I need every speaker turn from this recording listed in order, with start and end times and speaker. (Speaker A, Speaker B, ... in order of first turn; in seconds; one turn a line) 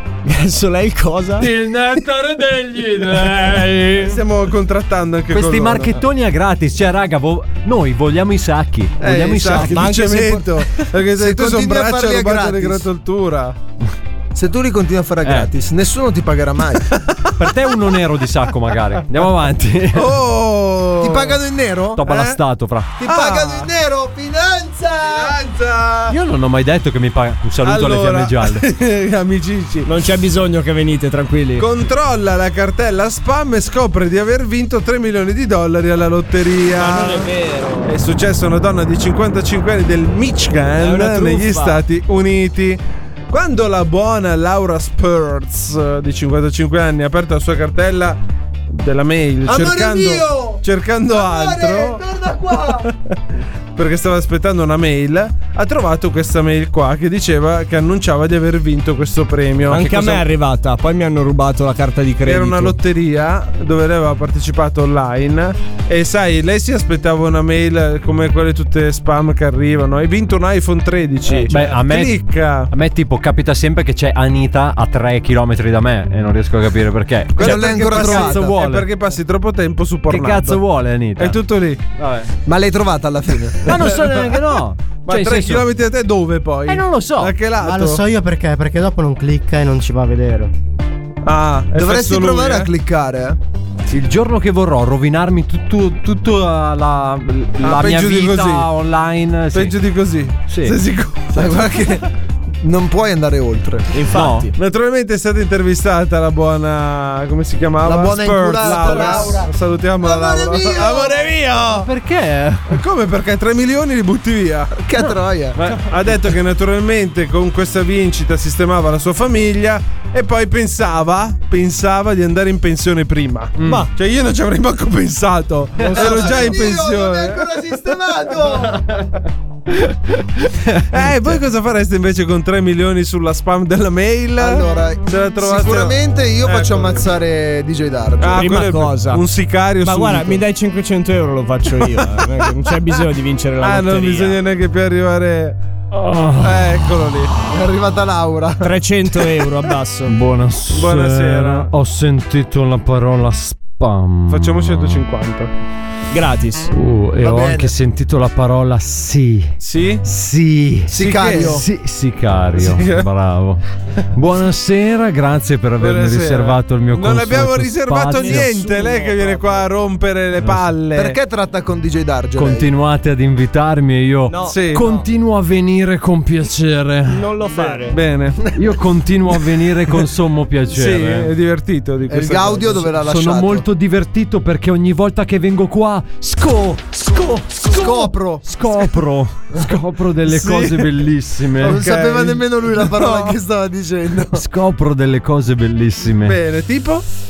Speaker A: 0.2-1.5
Speaker B: 1.4-4.2
Speaker C: 4.0-6.0
Speaker B: 5.3-9.9
Speaker C: 9.0-13.6
Speaker A: 9.6-10.8
Speaker D: 11.2-12.8
Speaker D: 14.3-16.9
Speaker B: 15.2-15.5
Speaker C: 16.9-17.2
Speaker B: 17.4-20.2
Speaker C: 19.9-21.4
Speaker D: 21.0-22.0
Speaker B: 21.9-22.9
Speaker C: 22.0-22.4
Speaker D: 23.0-25.3
Speaker C: 23.0-23.7
Speaker C: 25.1-26.1
Speaker B: 26.1-28.6
Speaker C: 27.6-29.9
Speaker A: 29.8-31.7
Speaker C: 31.6-37.3
Speaker A: 36.7-38.0
Speaker C: 37.9-48.2
Speaker A: 40.8-41.8
Speaker C: 48.7-52.0
Speaker D: 49.5-52.9
Speaker C: 52.5-52.9
Speaker C: 53.8-60.2
Speaker A: 59.7-62.8
Speaker C: 62.2-72.7
Speaker A: 71.3-71.7
Speaker B: 71.5-78.8
Speaker D: 77.3-78.5
Speaker C: 77.4-80.6
Speaker B: 80.1-81.4
Speaker C: 81.2-81.8
Speaker B: 82.0-82.3
Speaker D: 82.5-83.7
Speaker B: 83.6-85.6
Speaker C: 83.9-84.4
Speaker C: 85.0-88.0
Speaker B: 86.7-87.3
Speaker E: 87.6-90.5
Speaker C: 91.2-92.7
Speaker D: 91.7-93.4
Speaker B: 93.9-99.7
Speaker C: 97.6-98.7
Speaker C: 99.5-101.9
Speaker B: 100.5-100.8
Speaker D: 101.3-102.0
Speaker D: 102.6-103.9
Speaker A: 103.9-104.5
Speaker B: 104.1-104.5
Speaker C: 104.5-111.9
Speaker D: 107.8-109.5
Speaker A: 108.8-109.3
Speaker D: 110.0-111.2
Speaker B: 111.7-112.8
Speaker C: 112.7-114.7
Speaker D: 114.8-115.6
Speaker B: 115.0-115.8
Speaker C: 115.6-127.7
Speaker B: 123.6-123.9
Speaker A: 123.6-123.9
Speaker B: 125.8-126.5
Speaker D: 125.8-128.8
Speaker B: 129.7-131.4
Speaker C: 130.9-137.0
Speaker D: 134.4-138.5
Speaker C: 138.2-140.4
Speaker A: 138.3-139.2
Speaker A: 139.8-144.4
Speaker C: 141.8-142.2
Speaker C: 143.6-145.6
Speaker B: 145.9-146.7
Speaker C: 146.4-147.3
Speaker D: 147.5-148.7
Speaker A: 148.6-150.1
Speaker B: 150.1-155.0
Speaker C: 150.7-151.7
Speaker C: 154.3-155.5
Speaker A: 156.1-156.7
Speaker B: 156.7-159.5
Speaker D: 157.2-157.7
Speaker C: 159.6-160.0
Speaker B: 160.0-163.6
Speaker D: 160.9-161.7
Speaker C: 160.9-161.6
Speaker C: 162.6-163.1
Speaker B: 164.1-168.5
Speaker C: 165.8-171.2
Speaker A: 168.1-169.6
Speaker B: 170.4-170.7
Speaker D: 170.9-172.7
Speaker B: 172.3-177.2
Speaker A: 174.3-175.0
Speaker C: 174.4-174.9
Speaker A: 177.1-178.0
Speaker C: 177.8-178.5
Speaker B: 178.5-181.3
Speaker C: 180.7-182.8
Speaker D: 182.1-183.7
Speaker B: 182.8-191.8
Speaker D: 187.7-188.4
Speaker C: 190.2-191.1
Speaker C: 191.6-193.4
Speaker D: 191.6-194.4
Speaker B: 194.3-196.4
Speaker C: 196.2-197.0